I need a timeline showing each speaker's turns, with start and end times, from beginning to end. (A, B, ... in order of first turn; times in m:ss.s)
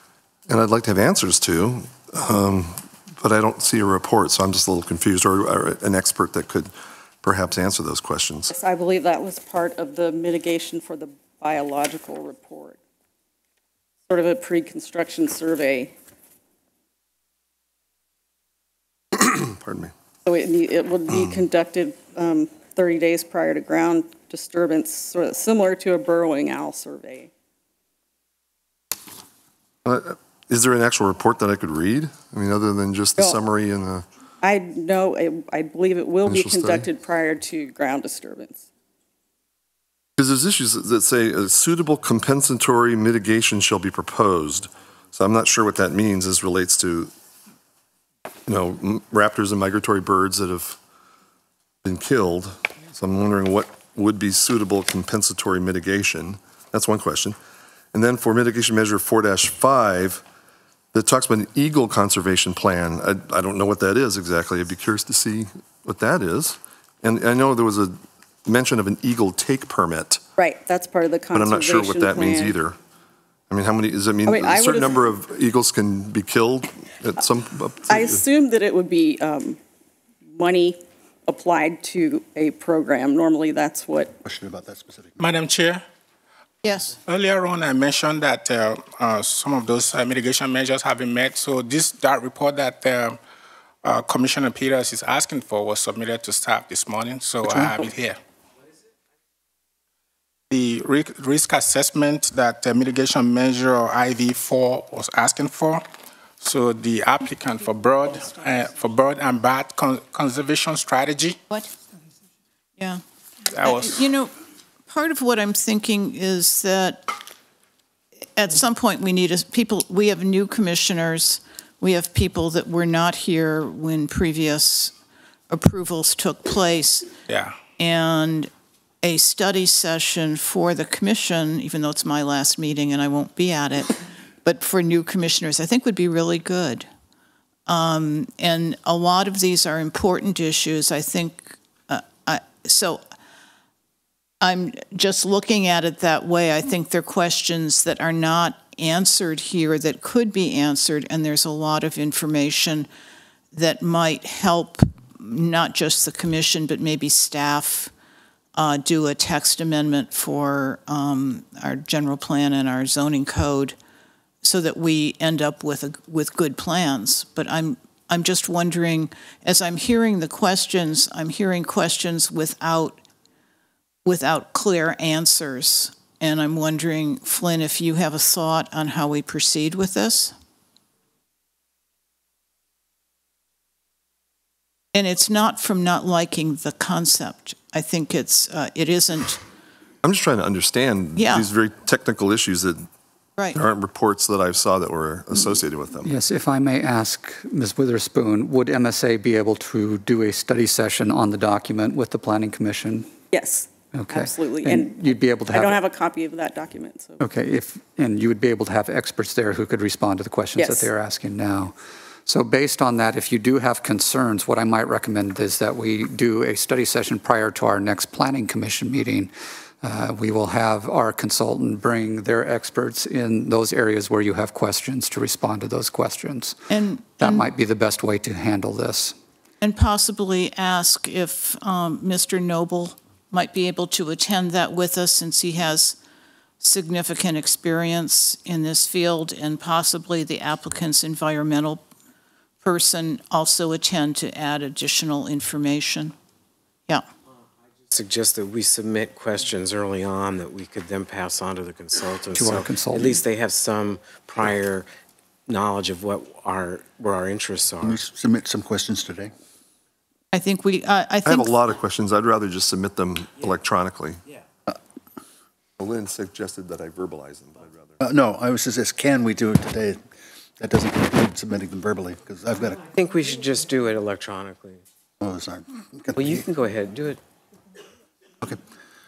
0:00.5-0:06.7 A
0:07.2-0:08.5 A
0:08.5-0:12.8 B
0:14.1-0:15.9 B
0:19.2-0:19.9 A
0:20.2-0:27.3 B
0:29.8-0:34.0 A
0:34.4-0:38.6 B
0:36.2-0:36.8 A
0:40.2-0:47.1 A
0:48.5-0:50.8 A
0:51.8-0:57.4 A
0:57.9-1:00.2 A
1:00.9-1:10.2 A
1:10.4-1:12.6 B
1:11.3-1:12.8 A
1:13.5-1:18.2 A
1:14.2-1:15.1 B
1:17.9-1:19.6 B
1:20.3-1:24.1 B
1:24.2-1:25.2 C
1:25.2-1:25.8 D
1:26.6-1:27.0 E
1:27.1-1:33.2 D
1:33.8-1:38.2 D
1:37.4-1:37.9 C
1:40.5-1:45.8 D
1:46.4-1:51.4 D
1:53.5-1:54.0 D
1:53.6-1:54.3 E
1:54.9-1:57.1 E
1:58.4-2:04.9 E
2:05.5-2:07.1 E
2:07.3-2:07.6 D
2:07.8-2:08.5 E
2:09.0-2:16.8 E
2:17.7-2:23.0 E
2:24.4-2:32.9 E
2:33.5-2:37.9 E
2:38.5-2:43.7 E
2:44.4-2:53.0 E
2:54.0-3:00.3 E
3:04.9-3:09.4 E
3:10.0-3:12.8 A
3:11.2-3:11.5 E
3:13.5-3:16.1 A
3:16.0-3:23.1 F
3:23.3-3:27.2 B
3:23.9-3:25.8 F
3:27.2-3:31.7 F
3:30.6-3:30.9 B
3:32.2-3:49.1 F
3:46.7-3:47.5 E
3:49.6-3:56.0 E
3:56.6-4:01.8 E
4:02.6-4:06.1 E
4:07.9-4:14.9 G
4:12.3-4:13.2 F
4:15.5-4:18.0 G
4:17.8-4:19.3 C
4:20.3-4:21.6 E
4:21.2-4:24.2 A
4:25.8-4:27.9 A
4:28.0-4:30.0 C
4:30.6-4:32.8 C
4:32.9-4:34.8 G
4:35.2-4:36.5 C
4:36.1-4:37.2 G